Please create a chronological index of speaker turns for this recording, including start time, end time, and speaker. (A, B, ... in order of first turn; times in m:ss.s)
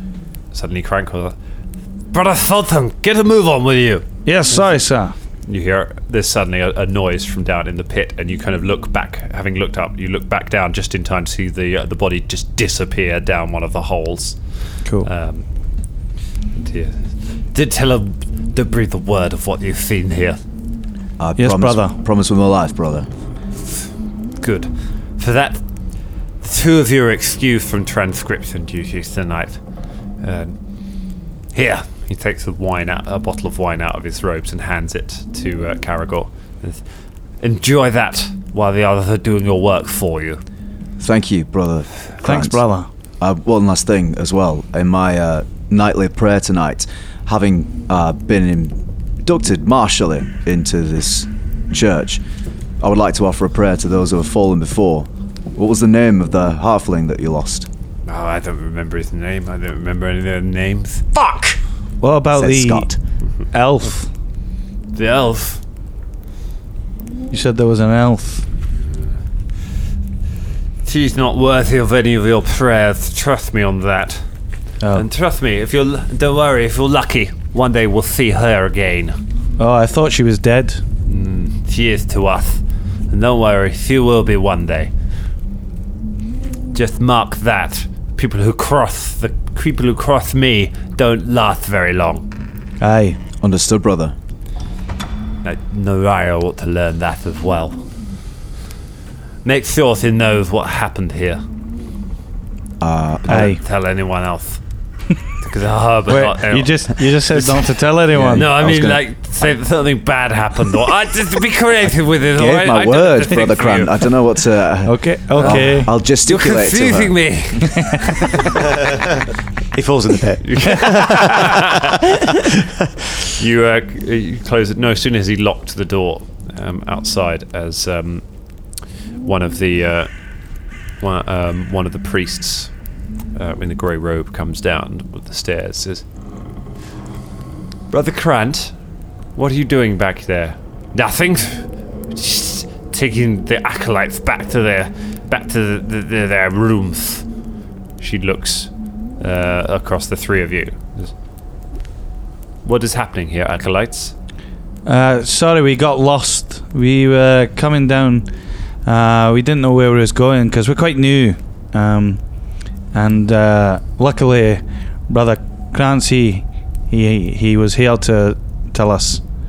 0:00.5-0:01.4 A
0:02.1-0:04.0 A
0:04.2-0:05.1 B
0:05.4-0:14.4 A
0:15.0-0:15.4 A
0:16.6-0:20.4 A
0:21.2-0:23.1 C
0:21.4-0:21.9 B
0:24.4-0:25.6 A
0:26.4-0:29.6 A
0:30.2-0:30.6 A
0:31.5-0:36.8 A
0:37.4-0:40.4 A
0:41.0-0:42.6 C
0:42.2-0:42.9 B
0:43.2-0:52.2 C
0:52.8-0:57.7 C
0:58.1-1:01.6 A
1:02.0-1:02.9 B
1:02.3-1:03.0 C
1:03.5-1:04.1 B
1:04.9-1:05.6 A
1:07.3-1:08.4 B
1:10.8-1:14.2 A
1:14.8-1:15.1 B
1:14.9-1:19.2 A
1:19.6-1:20.8 B
1:21.1-1:24.9 A
1:26.7-1:32.3 A
1:32.8-1:33.2 B
1:33.4-1:34.1 C
1:35.4-1:37.8 A
1:39.4-1:41.4 A
1:42.8-1:43.5 C
1:43.3-1:44.6 A
1:43.3-1:43.6 B
1:45.4-1:54.0 A
1:46.1-1:49.0 B
1:48.1-1:48.6 C
1:52.3-1:57.3 C
1:54.8-1:55.9 B
1:56.2-1:58.6 A
1:59.7-2:01.7 D
2:00.4-2:02.0 A
2:03.4-2:08.2 A
2:09.2-2:10.1 A
2:11.0-2:12.7 A
2:13.3-2:16.0 A
2:17.9-2:18.7 A
2:19.3-2:27.2 A
2:28.0-2:31.1 A
2:32.6-2:34.1 A
2:34.8-2:38.3 B
2:38.8-2:42.2 B
2:42.9-2:49.2 B